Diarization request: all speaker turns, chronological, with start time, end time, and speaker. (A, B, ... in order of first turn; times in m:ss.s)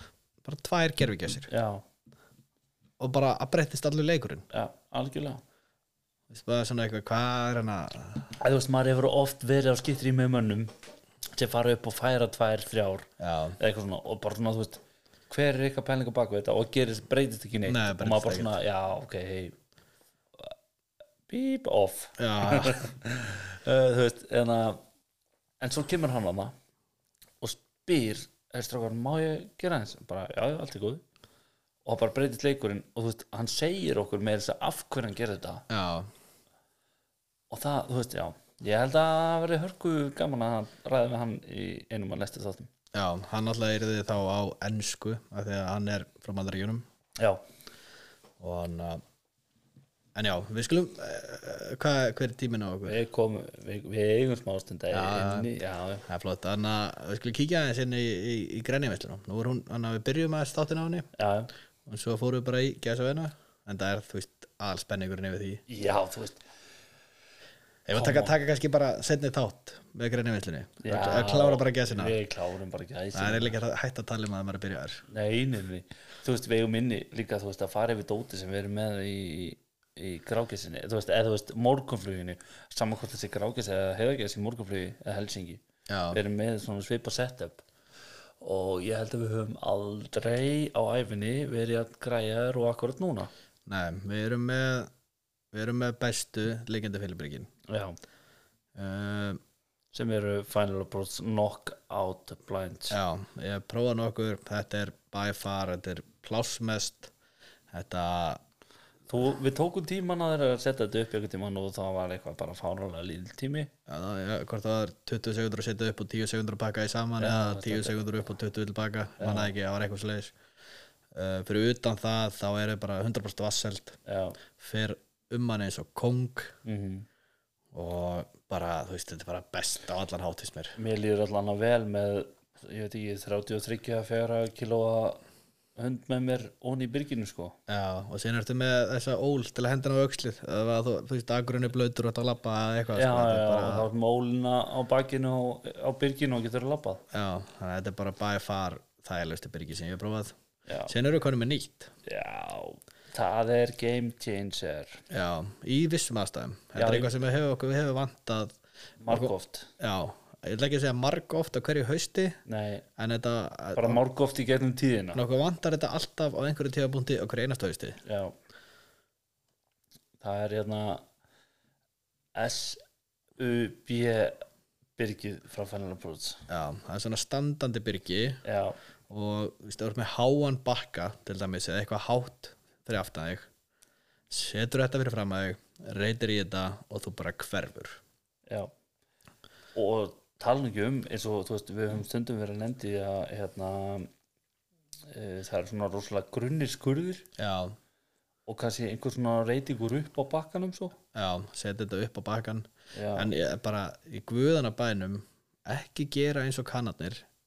0:00.4-0:01.5 A
0:01.5-0:01.8 B
0:03.0-0:04.4 A
0:04.5-0:05.4 B
0:06.3-0:08.3 A
0:08.4-0:10.7 B
0:11.3-0:19.6 B
0:13.2-0:13.6 A
0:17.6-0:18.5 A
0:21.3-0:24.8 B
0:22.2-0:22.8 A
0:25.6-0:26.5 B
0:27.4-0:31.0 B
0:31.8-0:35.6 B
0:35.7-0:36.1 A
0:37.5-0:42.7 B
0:42.9-0:46.8 A
0:48.4-0:49.0 A
0:50.1-0:53.0 A
0:52.8-0:56.0 B
0:54.9-0:55.5 A
0:56.0-1:01.1 A
1:01.2-1:01.5 B
1:01.8-1:05.6 A
1:05.7-1:06.4 B
1:07.8-1:12.2 A
1:07.9-1:08.3 B
1:10.8-1:13.6 B
1:13.1-1:15.0 A
1:15.1-1:27.6 B
1:25.9-1:26.2 A
1:28.4-1:33.3 B
1:33.7-1:34.9 A
1:35.5-1:37.5 A
1:37.7-1:38.0 B
1:38.7-1:39.4 A
1:39.9-1:43.0 B
1:42.9-1:47.1 A
1:47.7-1:48.4 A
1:49.1-1:53.7 B
1:53.9-2:00.3 A
1:57.2-1:58.0 B
1:59.2-1:59.5 B
2:01.1-2:04.0 A
2:04.0-2:04.4 B
2:04.6-2:06.5 A
2:06.6-2:07.1 B
2:07.7-2:10.8 A
2:10.8-2:15.2 B
2:15.8-2:17.6 B
2:17.7-2:23.9 A
2:22.9-2:27.0 B
2:27.1-2:30.4 A
2:30.7-2:30.9 B
2:30.9-2:31.9 A
2:32.0-2:35.0 B
2:35.1-2:42.4 A
2:36.8-2:37.1 B
2:39.0-2:39.7 B
2:42.4-2:42.8 B
2:43.0-2:44.0 A
2:43.7-2:45.2 B
2:45.1-2:48.0 A
2:48.0-2:48.3 B
2:50.2-2:51.0 B
2:52.3-2:52.8 B
2:53.4-2:54.4 B
2:55.0-2:56.4 B
2:56.5-2:58.4 A
2:58.4-2:58.8 B
2:59.1-3:03.5 A
3:04.3-3:08.0 A
3:09.7-3:14.1 B
3:15.1-3:17.3 B
3:17.4-3:17.8 A
3:18.5-3:21.0 B
3:21.1-3:27.2 A
3:22.9-3:23.3 B